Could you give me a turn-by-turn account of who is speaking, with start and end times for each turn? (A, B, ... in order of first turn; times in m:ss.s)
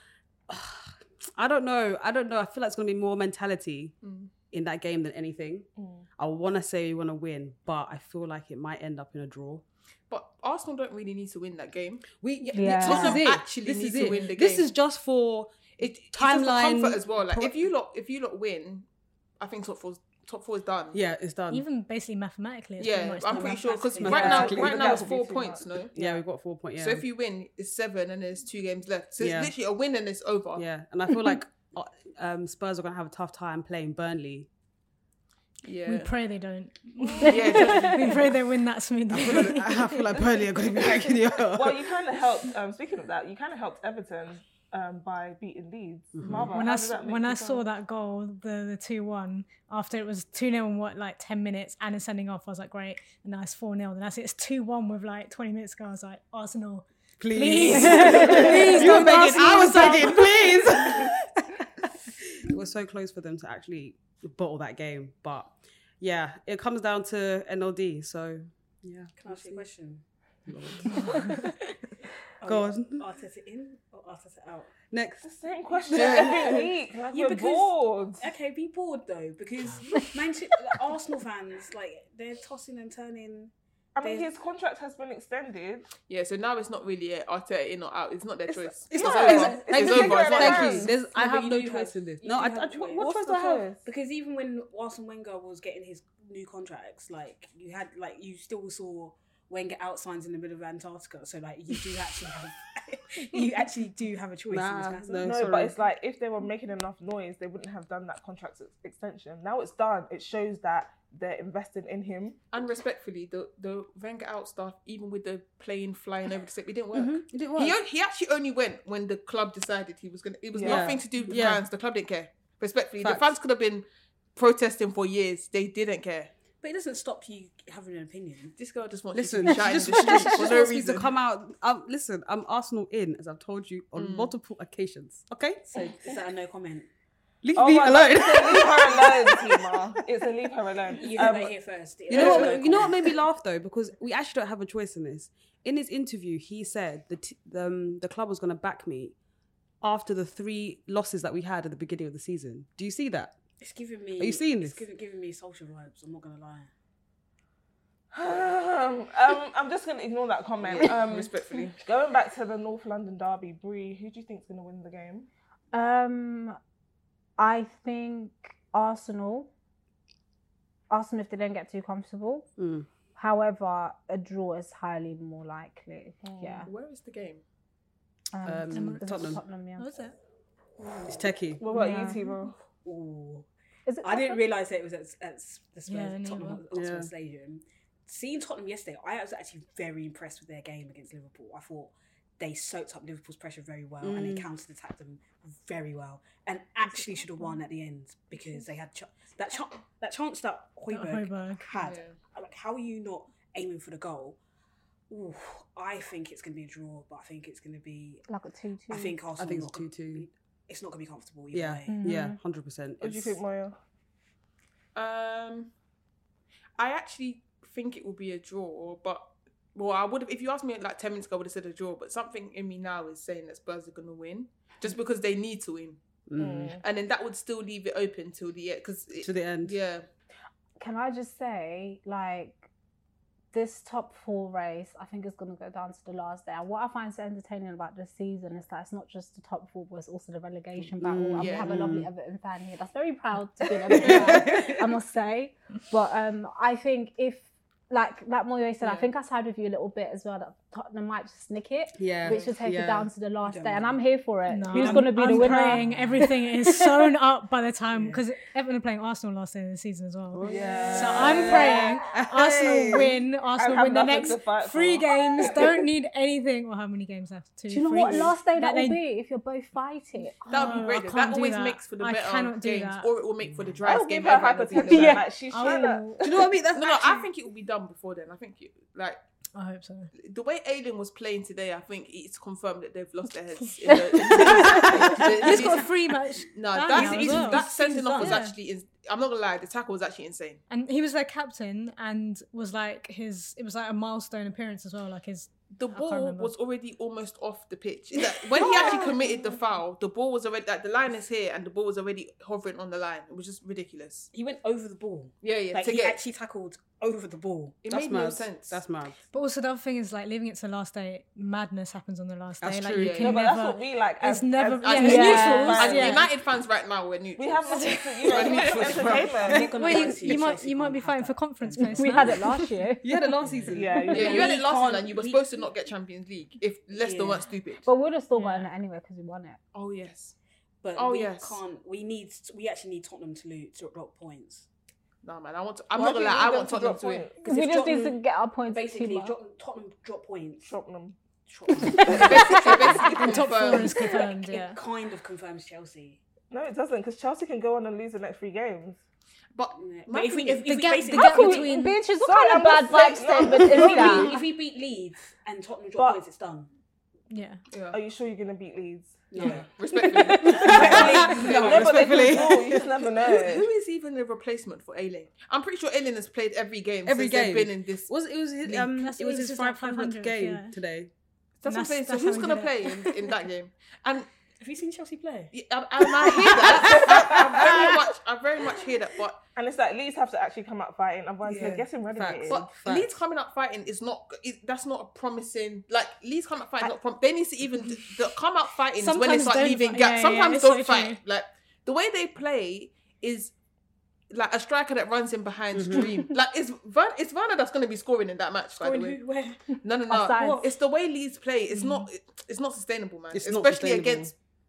0:00.5-0:04.0 A
0:04.0-0:04.3 B
0:04.5-0:09.6 A
0:05.8-0:06.0 C
0:10.1-0:12.1 B
0:12.2-0:17.7 A
0:12.5-0:13.2 D
0:12.6-0:14.7 B
0:15.8-0:18.9 B
0:19.4-0:21.0 B
0:20.9-0:21.6 A
0:21.5-0:23.6 E
0:22.8-0:26.0 B
0:23.3-0:25.1 F
0:24.0-0:25.0 A
0:24.1-0:26.2 C
0:26.0-0:27.0 A
0:26.8-0:30.6 B
0:29.2-0:29.5 A
0:30.6-0:34.5 A
0:35.6-0:36.1 B
0:35.9-0:40.1 E
0:37.3-0:38.3 B
0:39.1-0:41.9 A
0:41.5-0:47.7 C
0:46.2-0:46.6 A
0:46.5-1:00.3 E
0:57.2-1:09.7 A
0:57.4-0:59.0 D
0:58.9-1:00.5 B
1:09.2-1:10.0 F
1:10.5-1:11.4 A
1:12.4-1:14.7 F
1:12.4-1:13.0 A
1:14.9-1:15.2 A
1:15.2-1:18.3 C
1:15.9-1:16.7 B
1:16.0-1:16.3 F
1:16.0-1:16.4 A
1:17.1-1:24.3 F
1:24.0-1:25.9 C
1:26.1-1:30.9 B
1:28.9-1:30.9 C
1:28.9-1:33.6 A
1:30.9-1:33.3 F
1:32.8-1:33.8 C
1:33.8-1:45.5 F
1:44.5-1:45.8 A
1:45.3-1:52.4 C
1:52.5-2:03.8 B
1:56.9-1:57.8 A
2:00.6-2:01.0 C
2:00.6-2:01.7 A
2:03.0-2:03.3 A
2:04.4-2:06.3 B
2:06.6-2:08.5 F
2:08.6-2:11.1 B
2:09.2-2:15.7 A
2:14.0-2:14.3 B
2:15.7-2:16.9 F
2:17.4-2:19.8 A
2:17.6-2:21.5 C
2:21.0-2:23.0 F
2:22.1-2:22.6 C
2:22.1-2:29.1 A
2:29.8-2:33.4 A
2:33.6-2:36.7 F
2:34.2-2:34.8 A
2:38.1-2:41.3 C
2:40.7-2:41.8 B
2:41.8-2:45.3 C
2:45.7-2:46.6 D
2:47.4-2:49.5 D
2:50.9-2:52.5 D
2:52.6-2:52.9 A
2:53.2-2:56.7 D
2:56.2-2:56.7 C
2:56.7-2:57.4 B
2:58.3-2:59.9 D
2:58.4-2:59.4 A
2:58.7-3:00.2 E
3:00.9-3:01.3 F
3:01.1-3:01.6 A
3:01.6-3:02.5 C
3:01.7-3:02.3 D
3:02.8-3:03.5 F
3:03.9-3:04.4 D
3:04.0-3:24.4 F
3:05.9-3:06.6 E
3:06.7-3:07.1 A
3:14.0-3:14.5 A
3:20.9-3:21.7 E
3:21.8-3:22.2 B
3:25.1-3:28.2 F
3:28.3-3:29.2 D
3:28.9-3:32.0 F
3:29.4-3:30.3 A
3:31.5-3:33.4 A
3:31.9-3:32.4 D
3:33.0-3:33.8 C
3:35.0-3:35.7 B
3:36.8-3:46.0 B
3:46.3-3:46.8 A
3:46.4-3:46.8 C
3:46.8-3:50.1 B
3:49.2-3:49.8 A
3:50.8-3:52.7 D
3:53.5-4:15.9 D
4:01.0-4:02.1 A
4:01.4-4:01.8 B
4:03.9-4:04.8 A
4:08.8-4:09.1 B
4:12.0-4:13.1 A
4:13.4-4:14.0 F
4:14.5-4:29.0 E
4:14.8-4:15.1 A
4:14.8-4:16.3 F
4:17.9-4:18.2 F
4:20.3-4:23.1 A
4:20.5-4:22.0 C
4:22.9-4:25.8 C
4:27.7-4:30.8 D
4:30.5-4:33.1 E
4:30.5-4:35.2 B
4:33.8-4:36.5 C
4:34.9-4:36.3 E
4:36.2-4:37.3 A
4:36.7-4:39.2 B
4:39.6-4:40.1 E
4:40.2-4:50.6 B
4:43.8-4:48.5 E
4:46.9-4:48.5 F
4:50.7-4:56.5 E
4:55.7-5:04.3 B
5:04.3-5:07.8 F
5:05.4-5:06.2 B
5:07.8-5:08.8 B
5:07.9-5:09.2 A
5:09.3-5:16.3 E
5:12.6-5:13.3 A
5:12.9-5:13.5 B
5:13.2-5:16.2 C
5:14.8-5:19.4 B
5:15.0-5:16.0 D
5:17.4-5:20.3 C
5:18.4-5:22.4 F
5:19.5-5:20.1 A
5:19.6-5:22.7 E
5:21.8-5:23.2 D
5:23.0-5:24.1 A
5:23.4-5:25.5 F
5:23.7-5:24.6 C
5:24.1-5:27.8 B
5:27.0-5:27.5 F
5:27.8-5:29.6 D
5:29.7-5:30.4 B
5:30.8-5:34.7 F
5:31.0-5:31.6 B
5:35.2-5:37.3 B
5:35.9-5:37.4 C
5:37.4-5:40.7 F
5:37.4-5:39.4 D
5:40.6-5:41.2 C
5:41.5-5:46.2 F
5:42.0-5:42.3 C
5:42.1-5:44.1 B
5:43.0-5:44.8 E
5:46.5-5:49.0 C
5:49.5-5:50.9 B
5:49.8-5:51.7 F
5:50.6-5:52.0 E
5:51.1-5:54.4 D
5:52.1-5:54.4 C
5:53.6-5:56.7 F
5:55.9-5:56.2 C
5:57.3-5:57.6 E
5:57.7-5:58.0 B
5:57.9-5:59.6 C
5:59.3-6:02.4 F
5:59.4-6:02.1 B
6:00.6-6:02.8 A
6:00.7-6:03.7 C
6:03.3-6:08.1 B
6:07.1-6:11.1 A
6:08.7-6:10.8 E
6:11.6-6:14.3 B
6:11.7-6:13.3 E
6:14.6-6:15.5 F
6:15.5-6:19.4 B
6:16.8-6:17.6 F
6:19.6-6:22.8 C
6:22.1-6:23.2 A
6:22.5-6:33.5 B
6:29.0-6:31.2 E
6:34.3-6:39.2 B
6:35.7-6:36.2 A
6:38.8-6:39.7 F
6:39.8-6:44.3 B
6:40.1-6:40.6 D
6:40.3-6:40.7 F
6:41.7-6:42.1 E
6:43.3-6:44.3 A